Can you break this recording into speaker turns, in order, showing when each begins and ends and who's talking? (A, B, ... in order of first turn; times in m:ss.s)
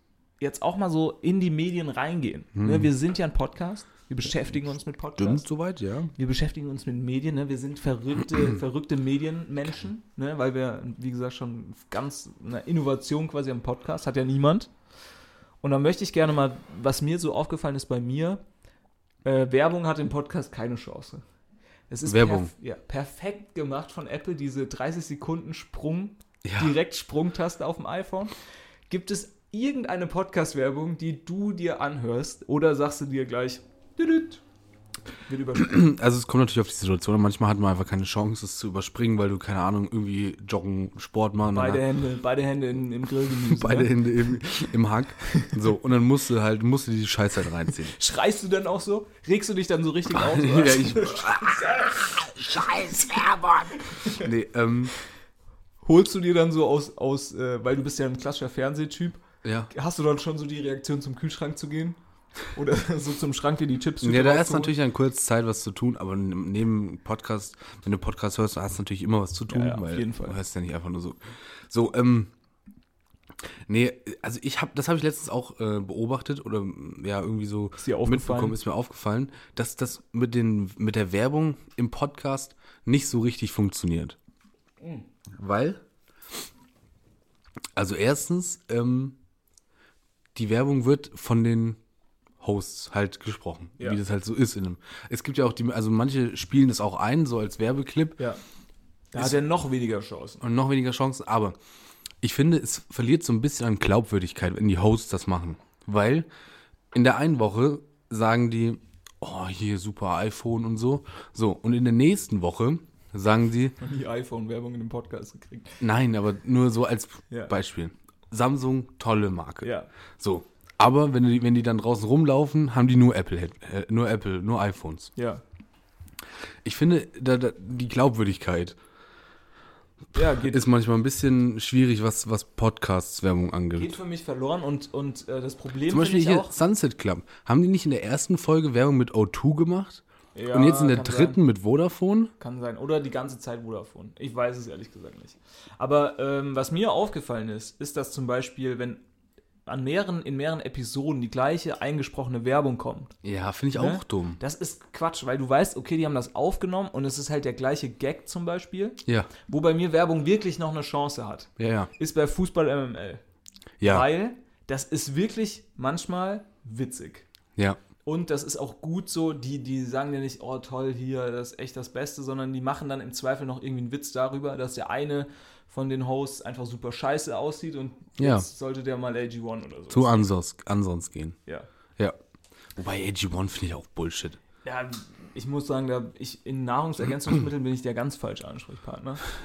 0:00.4-0:05.4 A
0:02.5-0:02.9 B
0:05.2-0:06.1 B
0:06.2-0:14.7 A
0:15.6-0:18.4 A
0:19.2-0:21.2 A
0:21.9-0:28.3 A
0:22.0-0:22.5 B
0:26.4-0:26.7 B
0:28.9-0:34.4 A
0:35.3-0:35.7 A
0:35.5-0:41.8 B
0:41.5-0:44.0 A
0:43.4-0:47.9 B
0:45.2-0:45.5 A
0:47.8-0:54.3 A
0:50.1-0:54.9 B
0:55.8-1:02.0 A
0:59.4-0:59.7 B
1:02.5-1:04.7 A
1:04.0-1:12.3 B
1:09.5-1:10.4 A
1:13.6-1:24.2 B
1:17.8-1:18.6 A
1:24.8-1:25.0 A
1:25.4-1:25.8 B
1:27.8-1:29.2 B
1:30.3-1:31.8 B
1:32.4-1:38.2 B
1:39.1-1:40.4 A
1:40.4-1:41.6 B
1:42.2-1:46.3 B
1:46.9-1:53.8 B
1:53.8-1:55.8 A
1:55.8-2:05.1 B
1:59.6-1:59.9 A
2:05.2-2:05.4 A
2:06.6-2:08.8 B
2:10.1-2:10.6 A
2:10.4-2:14.0 B
2:13.8-2:16.5 A
2:15.9-2:22.3 B
2:20.3-2:21.4 A
2:22.4-2:29.0 A
2:29.6-2:33.1 A
2:33.2-2:34.4 B
2:33.7-2:43.2 A
2:39.0-2:39.3 B
2:41.6-2:41.9 B
2:43.8-2:44.0 B
2:43.8-2:47.2 A
2:48.0-3:00.2 A
2:58.2-2:58.5 B
2:59.9-3:01.4 B
3:02.8-3:04.4 B
3:04.6-3:09.2 A